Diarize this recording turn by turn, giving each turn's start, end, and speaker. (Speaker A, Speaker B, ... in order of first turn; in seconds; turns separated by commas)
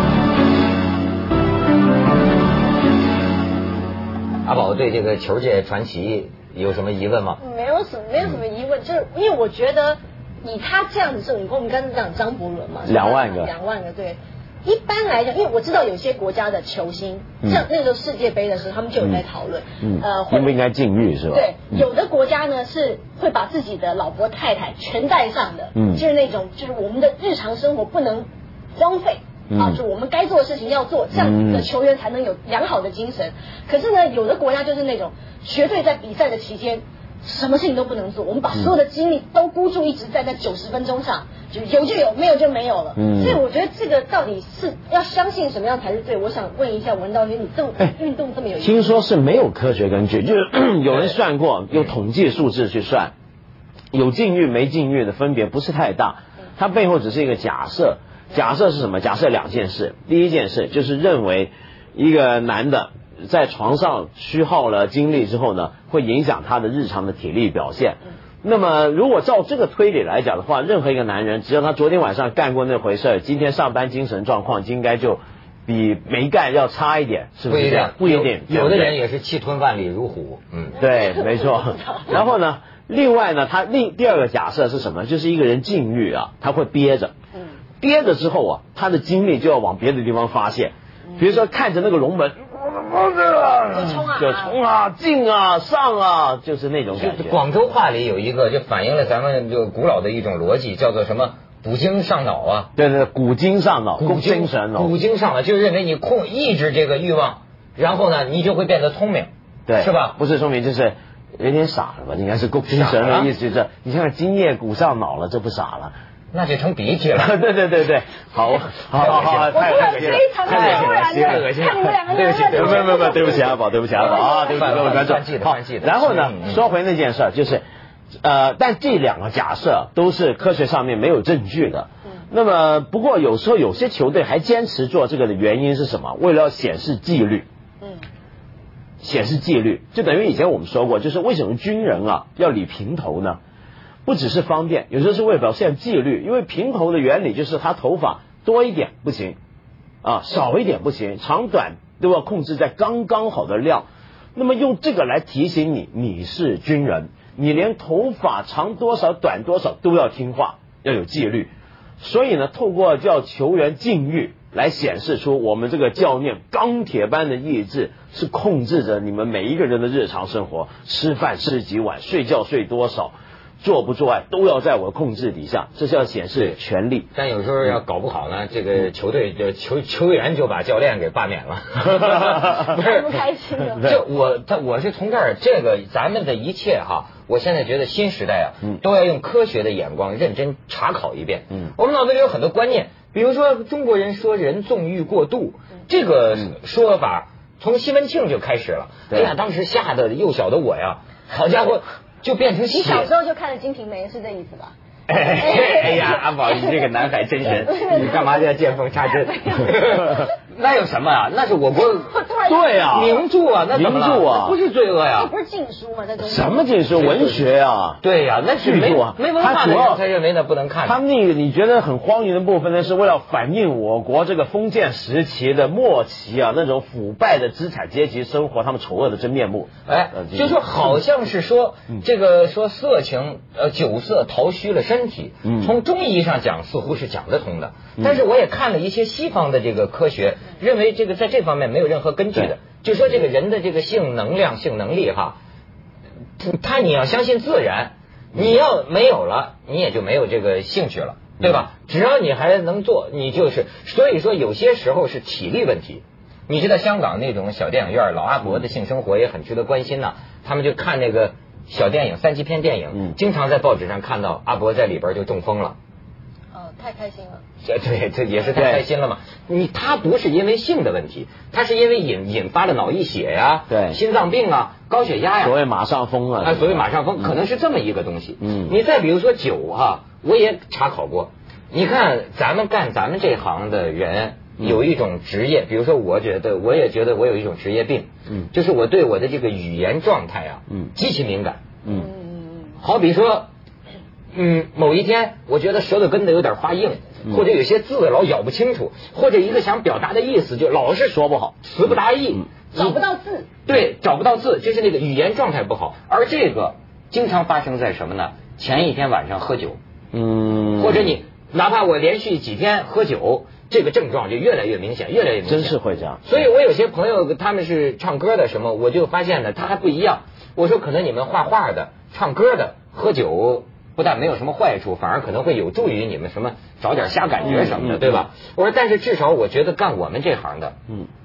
Speaker A: 4.4-7.4, Speaker B: 7.4-20.6, Speaker C: 12.8-13.5, Speaker C: 19.8-21.9, Speaker B: 21.3-49.0, Speaker C: 25.7-26.0, Speaker C: 29.5-29.8, Speaker C: 31.1-31.7, Speaker C: 43.0-43.4, Speaker C: 48.6-53.1, Speaker A: 50.9-51.2, Speaker C: 53.9-79.0, Speaker A: 77.5-80.8, Speaker B: 80.8-82.2, Speaker C: 80.8-87.1, Speaker C: 87.8-97.4, Speaker B: 93.7-94.5, Speaker A: 97.0-102.7, Speaker C: 102.8-104.9, Speaker A: 104.0-110.2, Speaker C: 109.7-115.9, Speaker A: 112.7-113.3, Speaker A: 116.3-117.3, Speaker C: 117.1-121.5, Speaker A: 118.9-123.3, Speaker B: 119.2-124.9, Speaker C: 122.5-127.6, Speaker A: 123.9-126.6, Speaker C: 128.2-137.4, Speaker C: 139.0-143.4, Speaker C: 144.0-149.4, Speaker C: 150.0-177.1, Speaker A: 177.1-183.1, Speaker C: 182.0-182.6, Speaker B: 182.6-183.8, Speaker A: 183.8-203.1, Speaker C: 199.1-199.3, Speaker B: 202.7-204.7, Speaker A: 205.1-212.1, Speaker B: 205.3-210.2, Speaker B: 212.0-213.2, Speaker C: 212.4-214.6, Speaker A: 212.9-215.3, Speaker B: 215.1-216.7, Speaker C: 216.2-218.0, Speaker A: 216.9-217.5, Speaker A: 218.0-221.0, Speaker C: 218.6-220.0, Speaker C: 220.8-230.6, Speaker A: 229.8-245.4, Speaker C: 235.4-235.7, Speaker A: 246.4-265.8, Speaker B: 266.5-267.4, Speaker A: 267.6-275.6, Speaker C: 268.5-268.8, Speaker C: 273.7-274.0, Speaker C: 275.4-277.3, Speaker A: 276.4-291.6, Speaker C: 278.4-278.8, Speaker C: 291.8-292.1, Speaker B: 291.9-292.7, Speaker A: 292.8-293.5, Speaker A: 294.3-303.0, Speaker C: 301.1-301.5, Speaker B: 302.7-303.5, Speaker A: 303.6-309.8, Speaker C: 310.1-311.2, Speaker A: 310.8-330.7, Speaker C: 315.4-316.2, Speaker C: 327.4-328.2